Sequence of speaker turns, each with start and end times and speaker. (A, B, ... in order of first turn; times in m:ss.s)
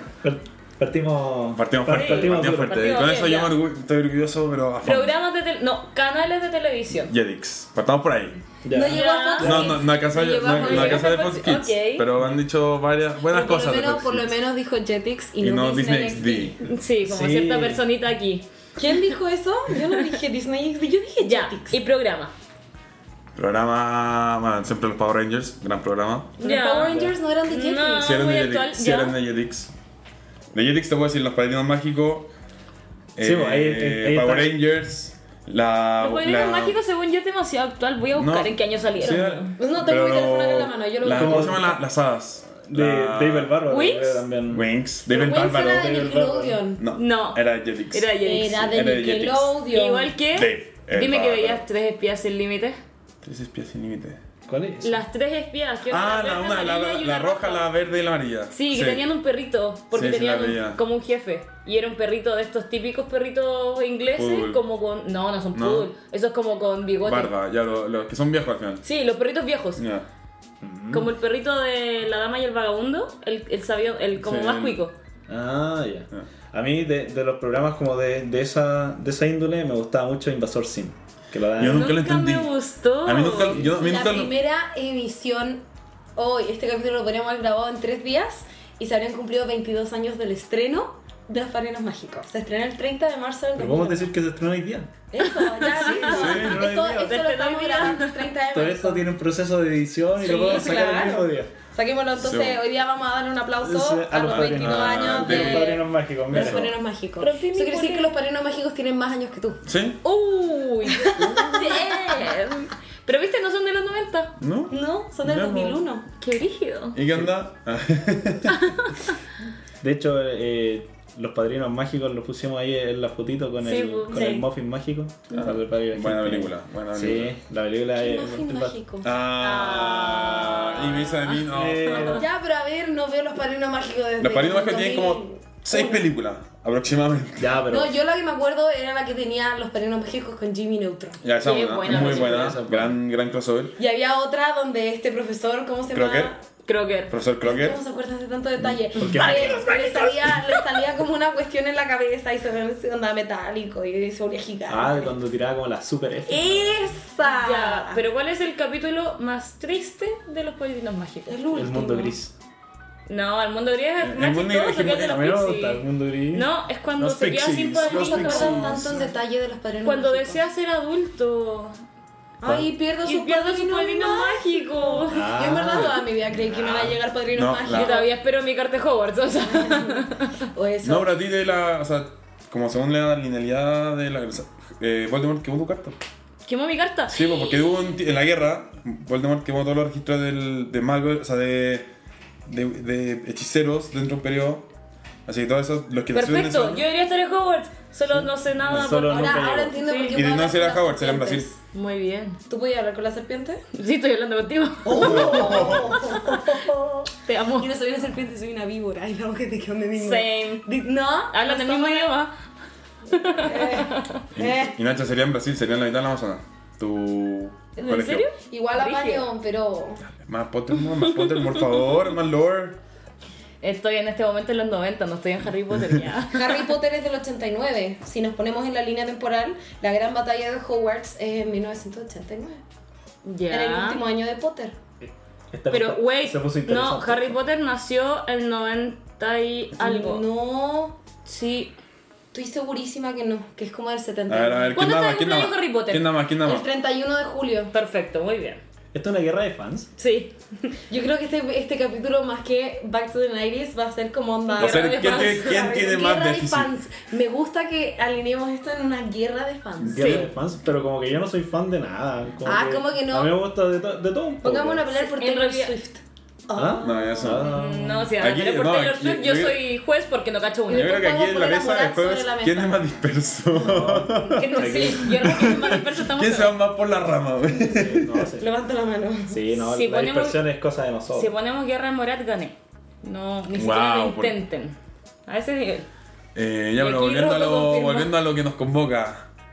0:00.2-0:02.8 A
0:01.5-0:05.1 B
0:01.9-0:03.5 C
0:04.8-0:07.1 C
0:07.1-0:08.4 B
0:08.6-0:09.7 A
0:08.7-0:11.1 D
0:08.9-0:09.6 C
0:09.3-0:14.3 B
0:10.5-0:12.1 C
0:13.3-0:16.7 D
0:15.4-0:16.6 B
0:16.7-0:18.4 C
0:17.0-0:17.8 A
0:18.8-0:21.8 D
0:21.2-0:22.3 C
0:23.3-0:26.3 B
0:26.4-0:28.1 D
0:26.4-0:27.0 C
0:26.8-0:27.2 A
0:27.5-0:29.1 C
0:28.0-0:29.7 B
0:30.5-0:32.3 B
0:33.2-0:36.8 B
0:33.2-0:34.6 A
0:36.0-0:39.5 C
0:38.2-0:43.5 B
0:39.0-0:41.6 D
0:41.0-0:41.8 A
0:42.6-0:44.7 A
0:43.7-0:44.2 C
0:44.5-0:46.1 B
0:45.0-0:46.8 D
0:45.4-0:46.6 A
0:46.8-0:49.6 B
0:46.9-0:48.7 C
0:48.2-0:50.1 D
0:49.7-0:52.8 C
0:50.3-0:51.6 B
0:53.2-0:54.2 B
0:54.4-0:55.0 A
0:54.8-0:57.6 C
0:55.9-0:59.0 B
0:58.5-1:07.3 C
0:59.9-1:00.8 B
1:04.1-1:04.6 B
1:05.5-1:05.9 B
1:07.0-1:08.8 B
1:08.8-1:09.8 C
1:09.8-1:10.0 B
1:10.6-1:11.1 A
1:10.9-1:14.9 C
1:14.2-1:14.8 B
1:15.3-1:21.9 A
1:21.6-1:22.5 B
1:21.6-1:23.6 C
1:23.0-1:24.3 B
1:23.6-1:25.6 D
1:26.1-1:34.1 D
1:33.6-1:34.9 A
1:35.1-1:39.1 D
1:35.2-1:38.3 C
1:35.8-1:37.2 A
1:36.0-1:36.6 B
1:38.5-1:41.5 A
1:40.2-1:49.6 D
1:40.2-1:40.7 C
1:42.1-1:42.6 B
1:43.6-1:46.7 A
1:44.2-1:45.7 B
1:47.2-1:48.1 C
1:49.6-1:50.0 B
1:50.0-1:54.3 C
1:50.8-1:52.5 D
1:54.4-1:55.8 B
1:54.7-1:56.0 D
1:56.2-1:57.0 C
1:56.9-1:58.6 B
1:58.5-1:59.1 C
1:59.8-2:08.8 A
2:03.6-2:04.4 C
2:05.3-2:07.4 B
2:07.9-2:09.1 D
2:09.0-2:12.1 B
2:09.4-2:12.2 C
2:11.5-2:12.2 A
2:12.1-2:16.0 D
2:14.2-2:17.6 B
2:17.4-2:17.9 A
2:17.6-2:21.2 D
2:21.2-2:23.7 B
2:21.4-2:22.6 C
2:21.8-2:23.0 A
2:23.8-2:26.4 D
2:25.9-2:26.3 B
2:26.6-2:27.1 C
2:27.1-2:27.8 B
2:27.4-2:35.1 D
2:29.0-2:29.6 A
2:29.1-2:30.9 B
2:34.7-2:36.8 A
2:36.3-2:38.0 D
2:37.2-2:41.4 C
2:41.3-2:42.2 D
2:41.5-2:42.3 A
2:43.1-2:48.8 C
2:44.0-2:45.4 B
2:45.0-2:46.5 A
2:47.0-2:49.1 B
2:47.8-2:50.4 D
2:49.8-2:51.8 C
2:52.4-2:58.1 D
2:53.0-2:55.3 C
2:55.1-2:57.0 A
2:57.3-2:58.0 B
2:57.7-3:00.4 C
2:59.4-3:01.1 D
3:00.8-3:06.0 B
3:06.4-3:07.8 C
3:07.1-3:11.9 B
3:12.4-3:14.7 B
3:15.2-3:16.8 B
3:16.1-3:20.2 C
3:18.1-3:19.8 A
3:19.0-3:21.6 D
3:20.1-3:21.5 B
3:21.7-3:22.4 C
3:22.5-3:23.6 D
3:23.7-3:26.4 C
3:24.8-3:32.1 D
3:24.9-3:26.0 B
3:27.2-3:27.7 C
3:30.0-3:30.7 C
3:31.3-3:32.3 C
3:33.1-3:34.2 C
3:33.1-3:34.8 D
3:34.3-3:38.3 B
3:37.8-3:39.2 C
3:38.4-3:40.0 D
3:40.1-3:42.8 B
3:40.9-3:41.8 C
3:43.6-3:46.7 C
3:46.3-3:52.6 D
3:53.2-3:54.0 C
3:53.5-3:54.8 D
3:55.0-3:57.4 A
3:55.7-4:00.2 C
3:59.8-4:01.0 D
4:01.2-4:01.7 C
4:02.3-4:04.8 D
4:04.3-4:06.7 B
4:04.7-4:06.1 C
4:06.4-4:07.7 D
4:07.7-4:08.6 C
4:08.9-4:09.9 A
4:10.0-4:10.7 C
4:10.9-4:20.2 D
4:14.5-4:15.6 C
4:14.6-4:16.7 B
4:19.8-4:20.3 B
4:19.9-4:24.9 A
4:22.4-4:23.4 D
4:24.4-4:27.5 D
4:24.9-4:25.8 C
4:26.5-4:28.1 A
4:26.8-4:27.5 B
4:27.4-4:30.9 C
4:28.2-4:29.6 B
4:30.7-4:32.8 D
4:30.7-4:38.3 B
4:33.6-4:35.4 A
4:34.3-4:36.5 C
4:37.6-4:38.5 A
4:38.4-4:39.4 D
4:39.3-4:41.3 A
4:39.6-4:40.4 C
4:41.1-4:45.9 C
4:43.5-4:44.4 B
4:46.3-4:49.3 B
4:46.8-4:48.1 C